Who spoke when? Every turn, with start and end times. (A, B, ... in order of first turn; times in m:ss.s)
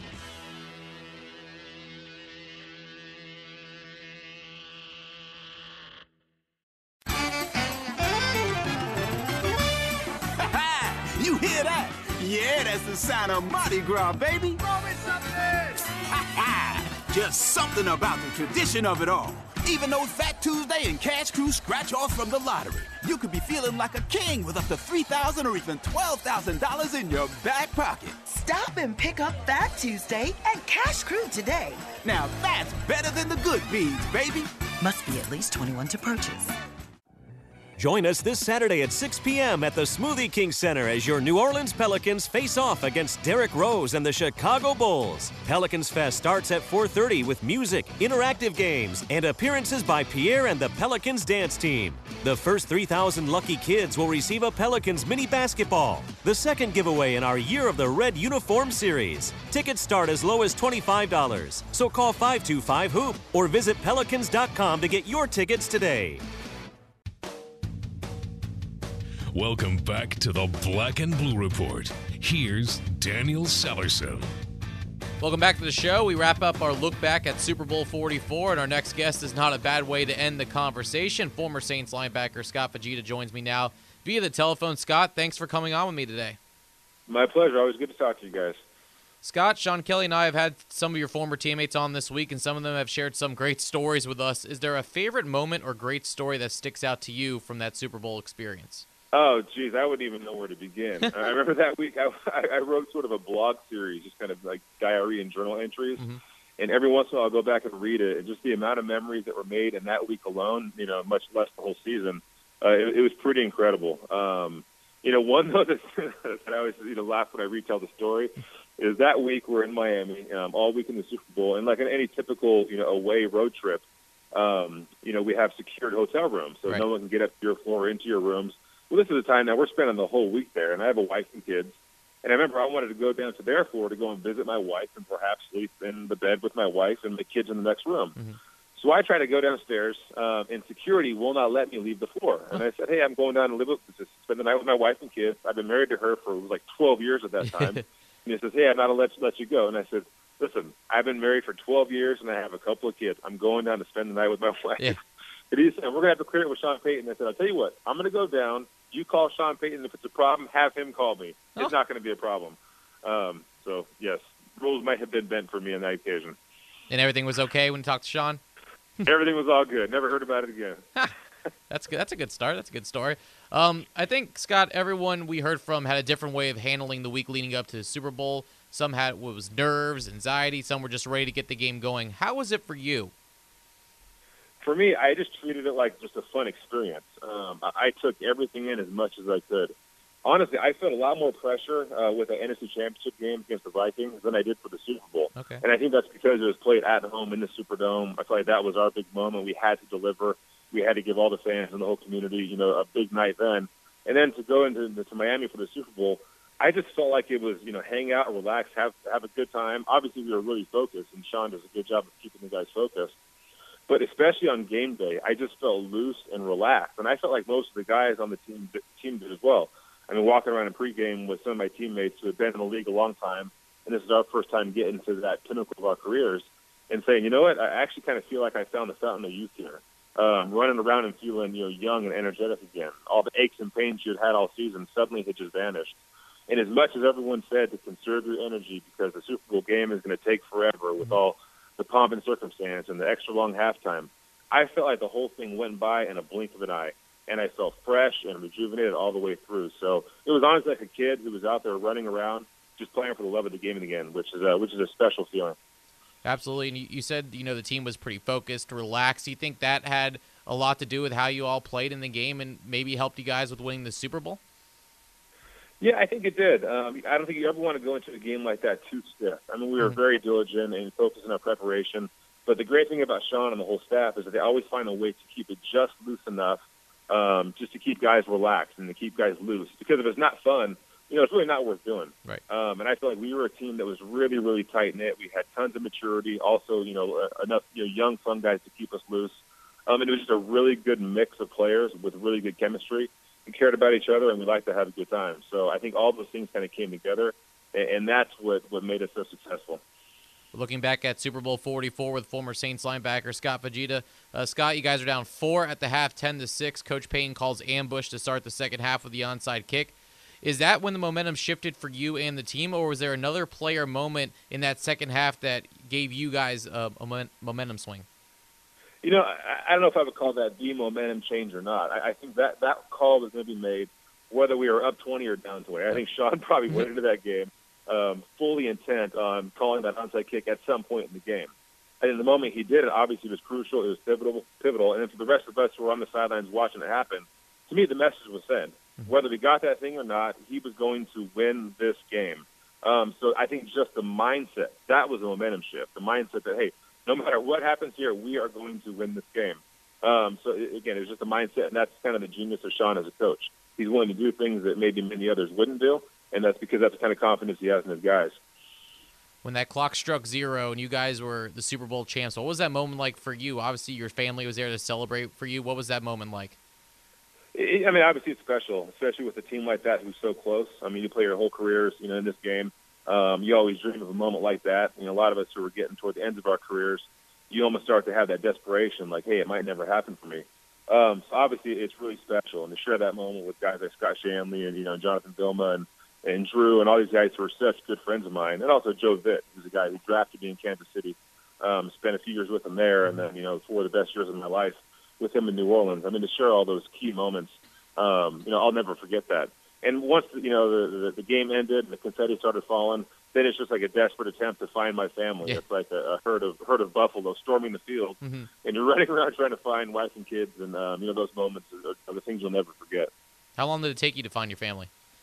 0:10.4-0:28.2 A
0:28.3-0:31.8 B
0:32.0-0:34.5 A
0:34.8-0:36.5 B
0:37.8-1:06.2 C
1:09.3-1:14.3 D
1:15.2-1:26.4 E
1:27.1-1:28.6 F
1:29.2-1:38.9 E
1:39.1-1:46.0 F
1:46.6-2:18.1 F
2:18.8-2:35.0 F
2:27.4-2:27.8 E
2:35.5-2:46.4 F
2:46.9-2:48.4 E
2:49.0-2:50.8 F
2:51.7-3:03.1 E
3:04.6-3:09.7 F
3:10.2-3:33.1 F
3:15.4-3:15.6 E
3:33.9-3:56.0 F
3:56.5-4:15.6 F
4:16.2-4:24.4 E
4:25.8-4:36.6 F
4:37.1-4:49.3 F
4:49.9-4:59.8 F
5:00.5-5:18.1 E
5:19.0-5:58.4 F
5:59.4-6:06.6 E
6:07.6-6:53.1 F
6:48.2-6:48.5 E
6:53.6-6:54.9 E